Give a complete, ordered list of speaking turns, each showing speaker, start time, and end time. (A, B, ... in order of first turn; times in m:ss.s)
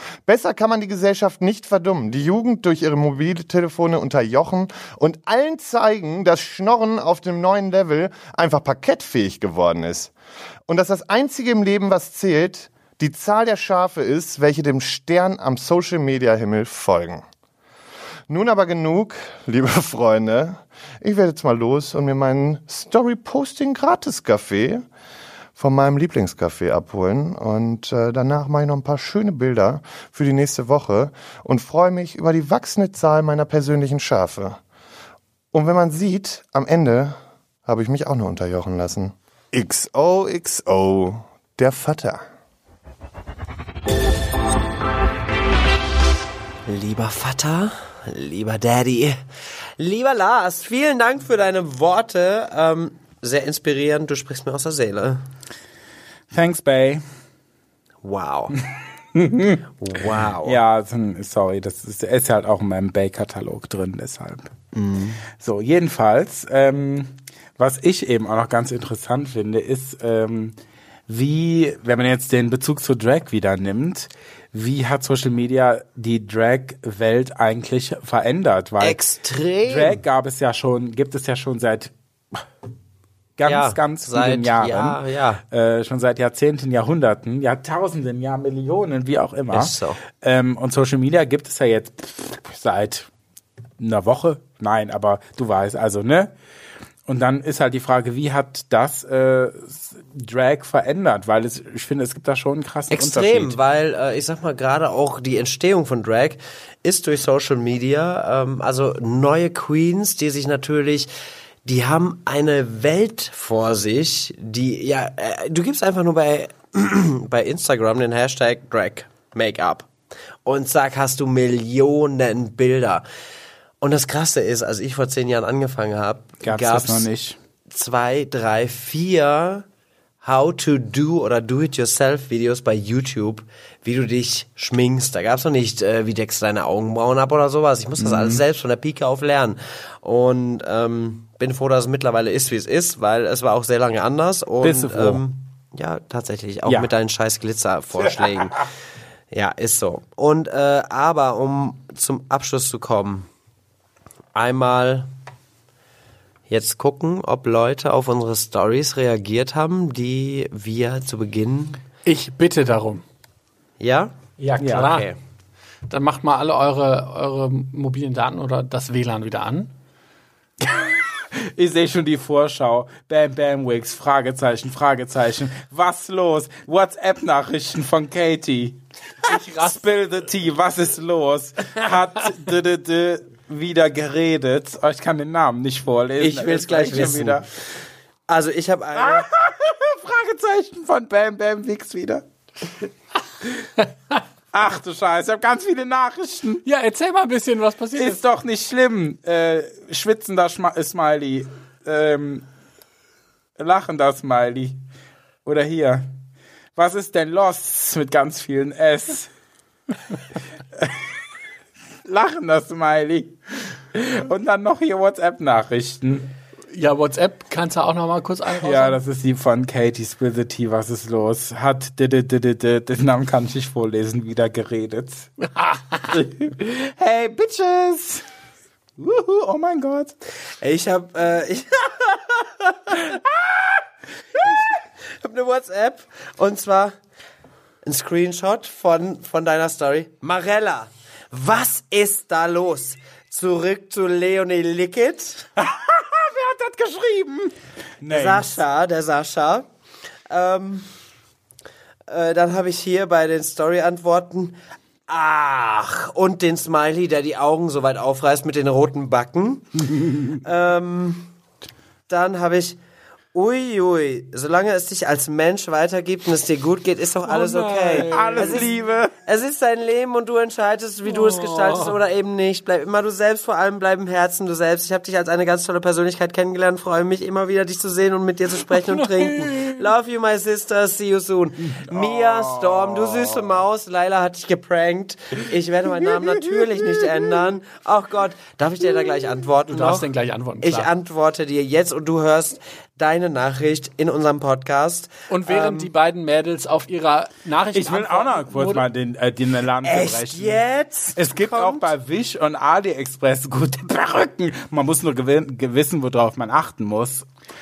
0:00.3-0:10.1 A
0:10.7-0:17.2 A
0:18.3-0:24.8 A
0:25.6-0:34.6 A
0:35.5-0:42.2 A
0:46.6-0:49.2 B
0:49.8-0:55.2 B
0:56.3-0:57.0 C
0:58.0-0:58.6 B
0:59.1-0:59.6 C
0:59.8-1:00.6 B
1:00.4-1:04.5 C
1:04.7-1:05.2 B
1:05.3-1:10.6 C
1:11.1-1:19.0 C
1:18.8-1:20.0 B
1:19.6-1:22.4 C
1:23.4-1:33.1 C
1:23.5-1:25.4 B
1:29.5-1:30.0 B
1:33.8-1:36.3 C
1:37.1-1:43.6 C
1:42.9-1:51.1 B
1:51.6-1:59.9 B
2:00.4-2:03.0 B
2:03.8-2:07.1 B
2:06.4-2:07.4 C
2:07.7-2:09.6 B
2:10.2-2:28.6 B
2:18.0-2:18.4 C
2:24.6-2:25.2 C
2:28.0-2:28.4 C
2:29.3-2:33.3 B
2:34.4-2:35.1 B
2:36.5-2:41.8 B
2:42.0-2:43.0 D
2:43.8-2:45.2 B
2:44.4-2:45.1 D
2:44.6-2:45.0 C
2:45.9-2:49.7 D
2:50.6-3:07.4 C
2:59.2-2:59.8 D
3:06.2-3:07.7 B
3:08.3-3:09.3 B
3:09.0-3:12.2 C
3:14.5-3:16.6 C
3:16.6-3:18.2 D
3:18.0-3:22.4 C
3:23.6-3:24.8 C
3:25.4-3:26.1 C
3:26.8-3:29.3 C
3:30.8-3:31.0 C
3:32.0-3:36.3 C
3:36.7-3:39.0 D
3:38.5-3:45.3 C
3:45.4-3:46.1 D
3:46.1-3:48.2 C
3:49.0-3:50.1 C
3:50.6-3:53.2 B
3:53.1-3:53.8 C
3:54.4-3:54.6 C
3:54.4-3:57.0 B
3:57.8-4:05.5 B
4:05.6-4:08.6 C
4:08.1-4:09.6 B
4:10.3-4:10.9 B
4:12.1-4:21.3 B
4:22.1-4:22.8 B
4:23.3-4:50.1 B
4:27.2-4:28.7 D
4:27.9-4:29.1 C
4:31.1-4:31.9 D
4:38.7-4:39.8 D
4:41.8-4:43.6 C
4:46.0-4:47.4 C
4:49.7-4:50.9 D
4:50.6-4:55.9 B
4:55.3-4:58.8 D
4:57.7-5:00.6 C
4:59.8-5:01.9 B
5:01.1-5:07.2 C